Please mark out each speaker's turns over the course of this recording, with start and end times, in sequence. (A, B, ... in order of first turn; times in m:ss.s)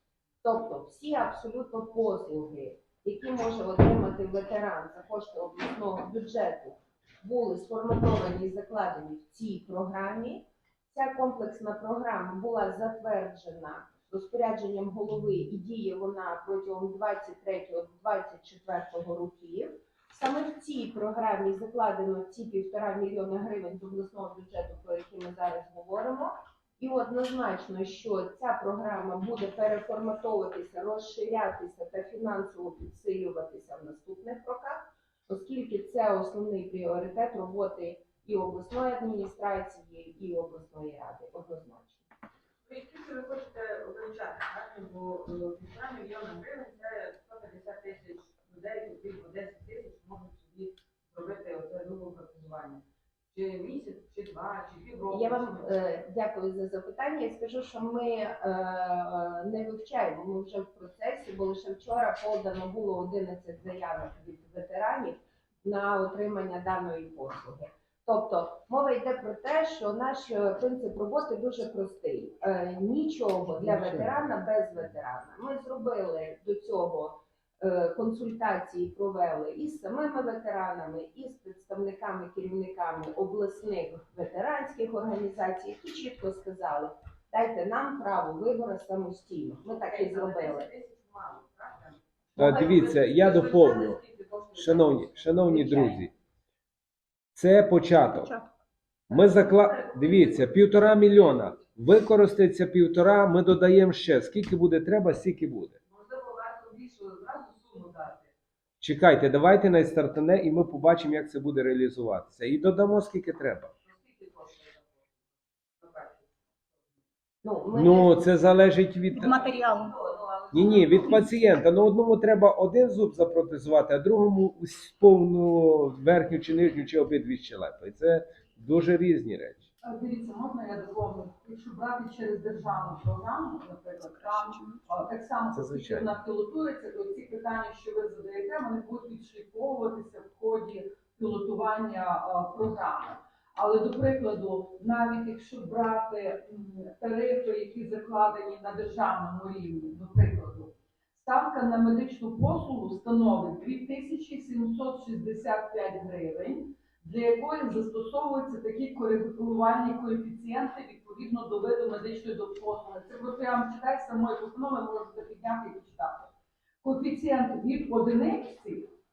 0:00.4-0:42.0 A
0:42.7-0:55.8 B
0:55.1-1:30.7 A
1:29.7-1:36.1 B
1:32.4-1:34.0 C
1:34.5-1:36.1 C
1:37.3-1:38.3 C
1:38.1-1:38.5 D
1:39.1-1:41.5 B
1:39.1-1:45.8 C
1:45.9-1:48.3 B
1:48.8-1:53.7 C
1:53.8-1:55.1 B
1:55.8-1:56.5 B
1:57.4-1:58.2 A
1:57.7-1:59.4 C
1:59.1-1:59.9 D
1:59.2-2:01.6 B
2:00.5-2:09.7 C
2:09.8-2:48.9 E
2:14.2-2:14.8 D
2:15.5-2:16.1 C